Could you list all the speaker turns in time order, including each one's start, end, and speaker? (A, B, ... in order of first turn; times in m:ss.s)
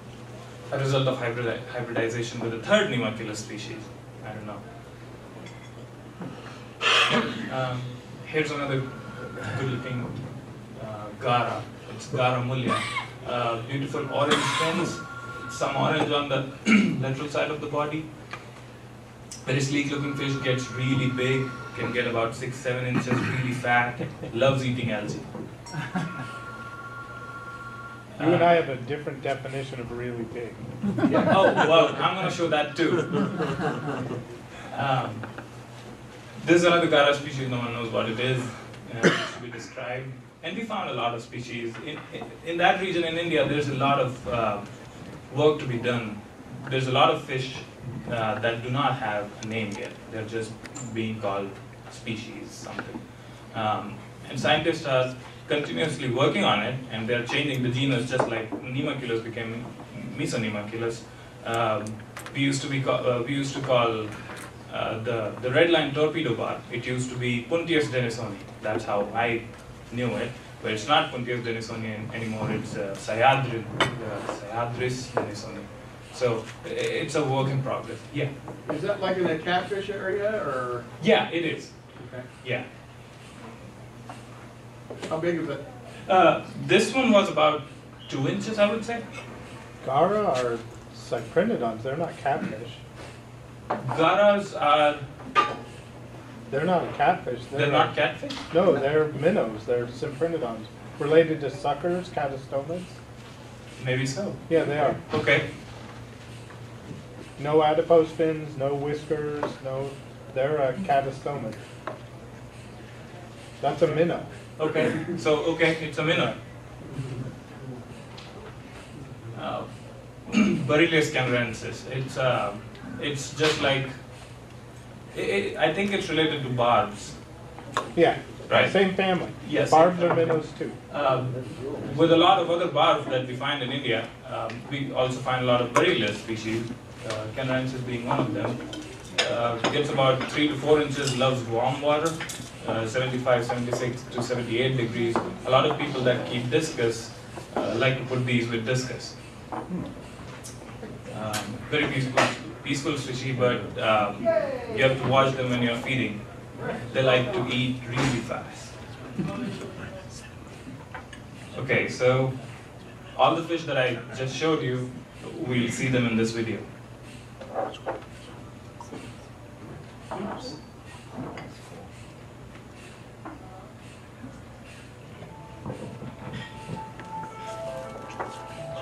0:00.7-0:04.6 A
0:07.5-0:18.3 A
0:19.4-0:25.3 A
0:28.1-0:28.6 A
0:28.2-0:30.8 B
0:31.1-0:33.5 A
0:34.7-0:35.7 A
0:36.4-1:18.3 A
1:18.6-1:20.9 C
1:21.0-1:22.7 A
1:22.0-1:22.3 C
1:25.1-1:25.6 C
1:26.0-1:29.0 A
1:29.8-1:32.8 B
1:33.8-1:35.0 A
1:36.5-1:43.0 B
1:37.5-1:38.4 A
1:43.8-1:45.5 A
1:44.5-1:45.0 B
1:47.4-1:51.6 B
1:53.6-1:54.6 B
1:54.6-1:56.4 A
1:56.1-1:56.4 B
1:56.8-1:57.2 C
1:59.4-2:04.5 A
2:05.1-2:07.2 A
2:07.9-2:10.8 B
2:08.5-2:29.2 A
2:31.1-2:38.8 A
2:41.5-2:46.6 A